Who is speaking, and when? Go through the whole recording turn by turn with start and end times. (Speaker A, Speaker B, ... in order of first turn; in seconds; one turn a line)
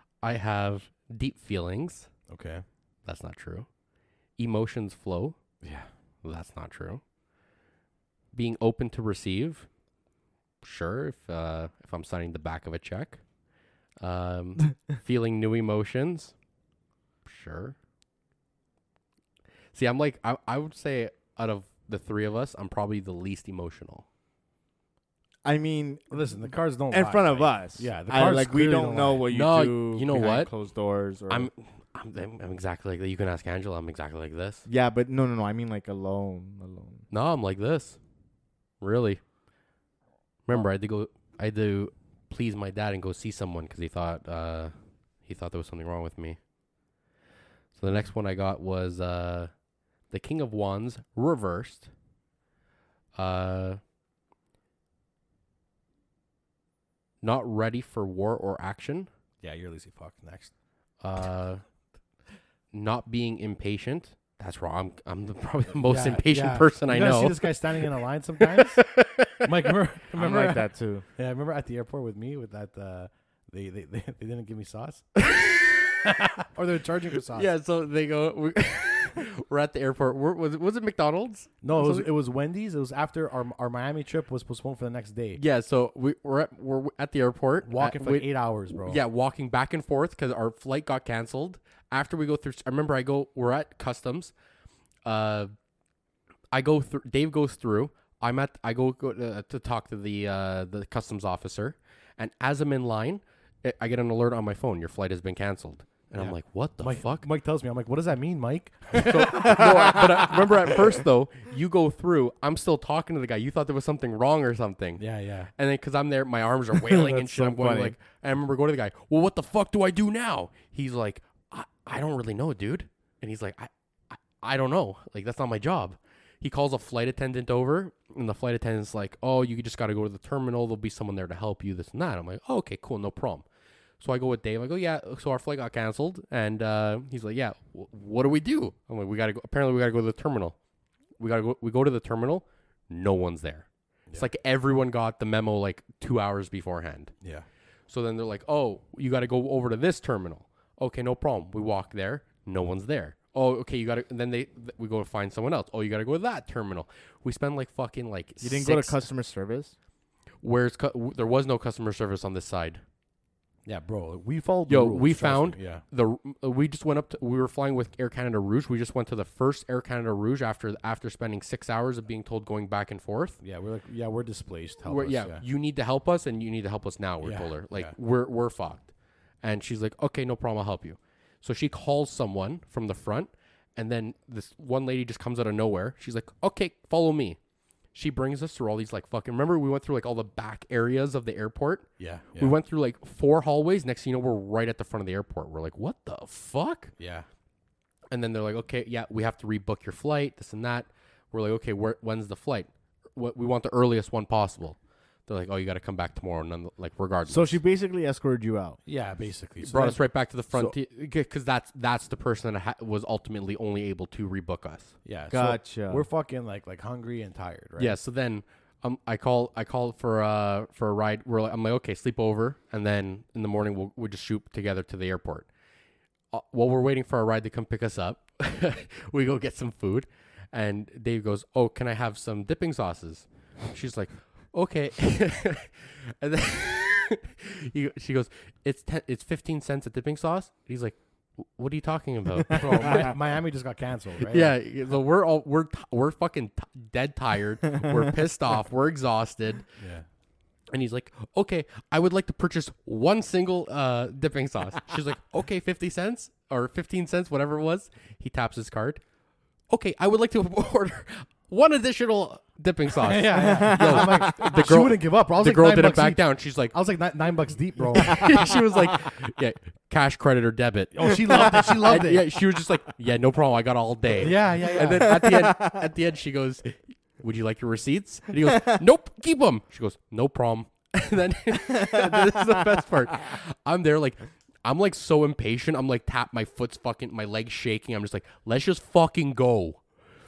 Speaker A: 0.2-2.1
Speaker B: 2.3-2.6
Speaker A: 3.0-3.7
Speaker A: 4.4-5.4
Speaker B: 5.6-5.9
Speaker A: 6.2-7.0
Speaker A: 8.3-9.7
Speaker A: 10.6-13.2
Speaker A: 14.0-16.3
Speaker A: 17.2-17.8
Speaker A: 19.7-24.1
Speaker C: 25.4-31.5
Speaker B: 26.1-29.3
Speaker A: 29.3-30.5
Speaker A: 31.3-34.6
Speaker C: 34.7-37.1
Speaker A: 37.1-38.0
Speaker A: 38.8-39.2
Speaker A: 40.5-46.4
Speaker A: 47.8-49.5
Speaker A: 50.1-51.9
Speaker A: 53.1-53.8
Speaker A: 57.2-59.1
Speaker B: 59.4-60.5
Speaker A: 61.0-61.6
Speaker A: 62.7-67.8
Speaker B: 65.8-68.8
Speaker A: 68.4-69.5
Speaker B: 69.4-75.1
Speaker C: 70.2-71.0
Speaker A: 75.3-75.8
Speaker B: 76.0-77.5
Speaker A: 77.3-82.1
Speaker B: 81.6-85.4
Speaker A: 85.3-94.3
Speaker B: 87.6-89.0
Speaker A: 95.0-95.5
Speaker A: 96.5-107.3
Speaker B: 106.2-110.7
Speaker A: 109.0-115.0
Speaker C: 109.6-110.2
Speaker B: 115.0-115.5
Speaker A: 115.6-133.5
Speaker C: 116.8-118.0
Speaker A: 134.0-140.6
Speaker A: 141.2-147.1
Speaker A: 147.9-159.0
Speaker C: 158.4-159.7
Speaker A: 160.4-162.8
Speaker B: 163.7-165.8
Speaker A: 164.7-173.4
Speaker B: 173.4-175.4
Speaker A: 174.9-178.9
Speaker B: 177.2-177.9
Speaker A: 179.4-187.4
Speaker A: 187.9-196.9
Speaker B: 192.0-192.6
Speaker B: 197.0-197.3
Speaker A: 198.1-207.6
Speaker C: 207.3-208.8
Speaker B: 208.9-210.8
Speaker A: 209.6-214.9
Speaker B: 215.1-218.0
Speaker C: 215.3-216.1
Speaker A: 217.8-225.5
Speaker A: 226.3-243.0
Speaker B: 242.5-244.6
Speaker A: 244.2-249.7
Speaker B: 249.8-250.1
Speaker A: 250.7-259.0
Speaker A: 259.7-266.7
Speaker B: 263.0-268.4
Speaker C: 263.4-264.6
Speaker A: 268.0-289.8
Speaker B: 270.9-272.3
Speaker B: 274.2-275.2
Speaker C: 274.7-275.8
Speaker C: 281.7-282.6